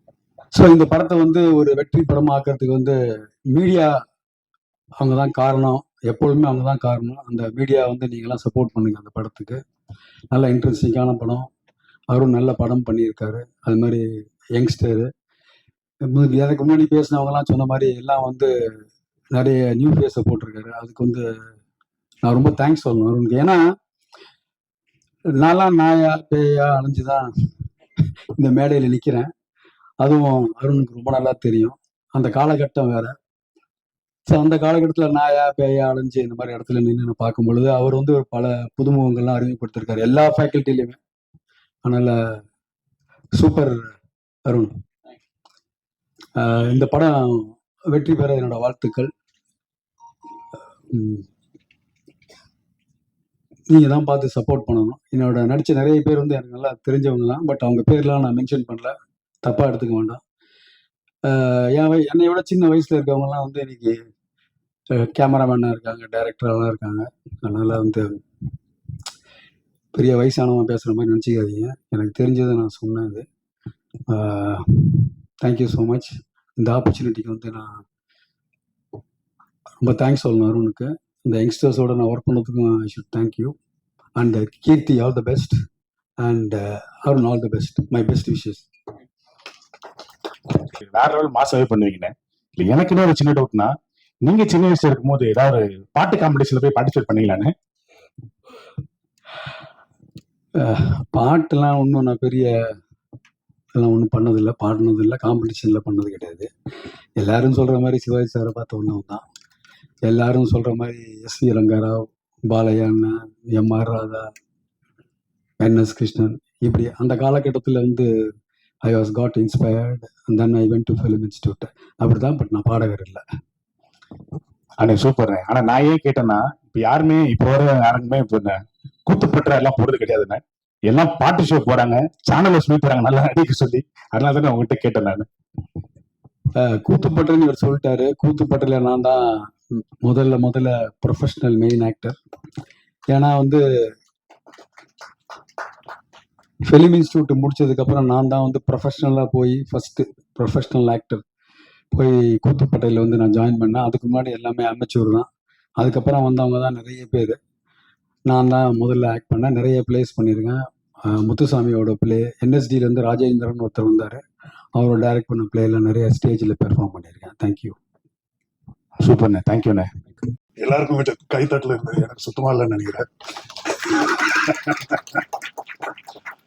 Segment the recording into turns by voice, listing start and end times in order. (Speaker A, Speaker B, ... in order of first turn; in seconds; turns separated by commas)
Speaker A: 0.5-3.0, Speaker A: 3.5-4.0, Speaker A: 5.0-9.6, Speaker A: 10.3-11.5, Speaker A: 12.1-15.1, Speaker A: 16.1-18.5, Speaker A: 19.3-21.3, Speaker A: 22.2-23.6, Speaker A: 25.4-27.3, Speaker A: 28.4-29.3, Speaker A: 30.0-33.1, Speaker A: 34.3-41.0, Speaker A: 41.8-42.4, Speaker A: 43.4-43.8, Speaker A: 44.5-44.7, Speaker A: 46.4-49.1, Speaker A: 50.9-51.3, Speaker A: 53.7-60.2, Speaker A: 61.3-64.0, Speaker A: 64.9-68.2, Speaker A: 69.9-73.2, Speaker A: 74.1-77.8, Speaker A: 79.8-83.5, Speaker A: 84.2-85.5, Speaker A: 86.2-88.7, Speaker B: 90.7-97.5, Speaker A: 100.6-102.5, Speaker A: 103.8-106.5, Speaker A: 107.2-109.2, Speaker A: 110.0-114.3, Speaker A: 115.6-118.1, Speaker A: 118.8-123.2, Speaker B: 124.8-135.3, Speaker A: 136.6-142.2, Speaker A: 143.1-143.6, Speaker A: 146.7-151.2, Speaker A: 151.9-155.3, Speaker A: 155.8-157.4, Speaker A: 158.3-164.2, Speaker A: 164.8-167.8, Speaker B: 169.0-169.9, Speaker C: 170.6-173.1, Speaker C: 173.7-175.2